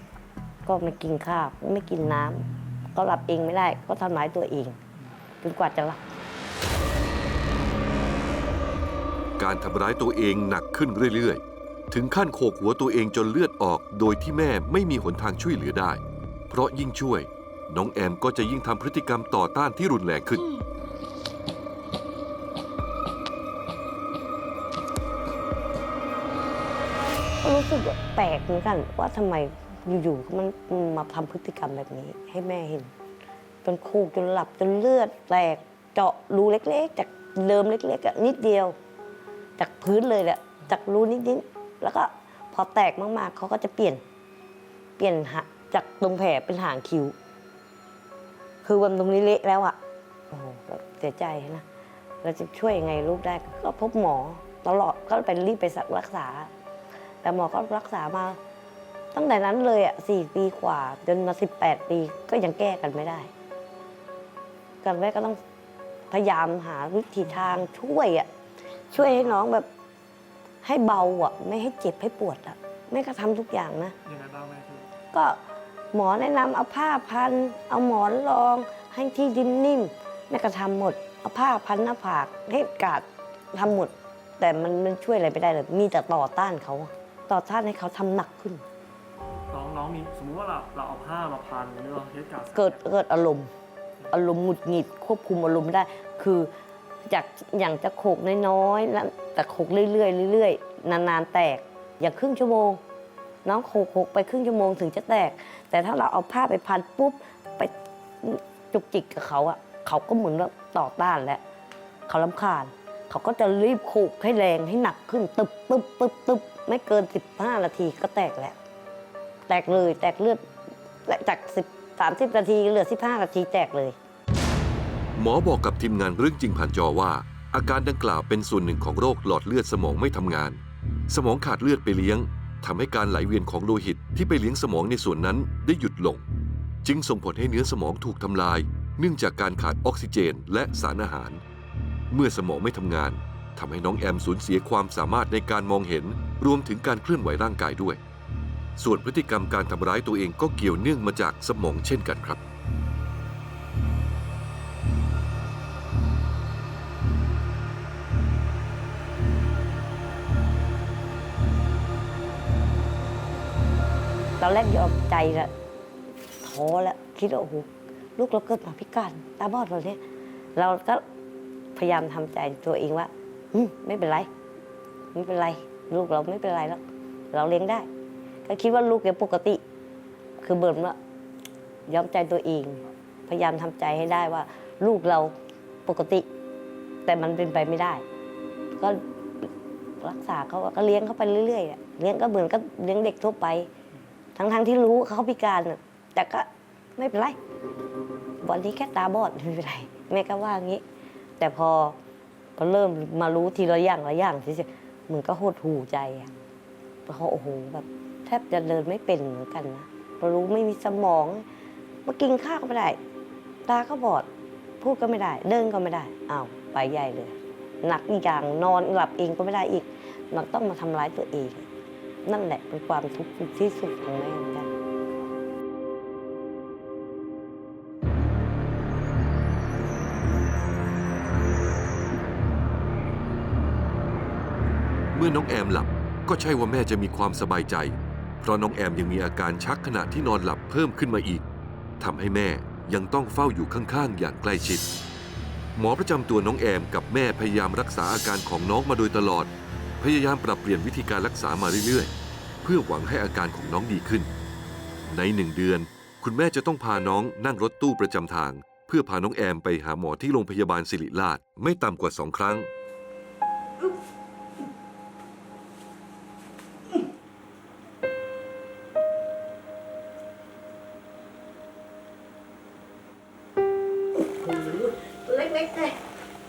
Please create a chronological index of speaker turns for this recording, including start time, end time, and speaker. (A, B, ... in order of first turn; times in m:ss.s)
0:00.6-0:02.4 A
0:02.9-0:04.8 A
0:05.4-0:06.0 A
0:09.4-0:20.5 B
0:27.4-0:32.9 A
0:33.6-0:38.8 A
0:39.6-0:44.0 A
0:45.0-0:47.1 A
0:48.6-0:49.8 A
0:50.3-0:51.6 A
0:52.2-0:56.5 A
0:57.2-0:58.4 A
0:59.1-1:03.3 A
1:04.8-1:05.4 A
1:06.1-1:08.3 A
1:08.9-1:09.7 A
1:09.0-1:09.4 C
1:10.6-1:13.9 A
1:14.0-1:14.9 C
1:15.1-1:15.4 A
1:15.9-1:28.6 A
1:29.5-1:32.8 C
1:32.5-1:33.5 A
1:34.1-1:36.5 A
1:37.0-1:42.8 A
1:43.4-1:51.4 A
1:52.1-1:58.6 A
1:59.5-2:00.5 A
2:01.1-2:03.9 A
2:05.2-2:16.2 B
2:16.8-2:21.4 B
2:22.1-2:28.0 B
2:28.8-2:32.4 B
2:44.4-2:45.5 A
2:46.4-2:50.0 A
2:50.6-2:51.0 A
2:51.7-2:54.3 A
2:55.1-2:56.8 A
2:57.3-2:57.9 A
2:58.4-2:59.6 A
3:00.4-3:01.0 A
3:01.9-3:05.3 A
3:05.8-3:06.2 A
3:07.0-3:08.0 A
3:08.7-3:09.5 A
3:10.0-3:13.7 A
3:14.4-3:17.4 A
3:18.4-3:20.8 A
3:21.4-3:22.0 A
3:22.6-3:26.3 A
3:27.1-3:31.4 A
3:32.0-3:33.0 A
3:33.6-3:34.3 A
3:34.8-3:41.6 A
3:42.2-3:44.7 A
3:55.1-4:01.4 B
4:02.0-4:04.8 B
4:05.8-4:12.1 B
4:12.6-4:14.3 B
4:15.1-4:22.7 B
4:34.3-4:36.0 A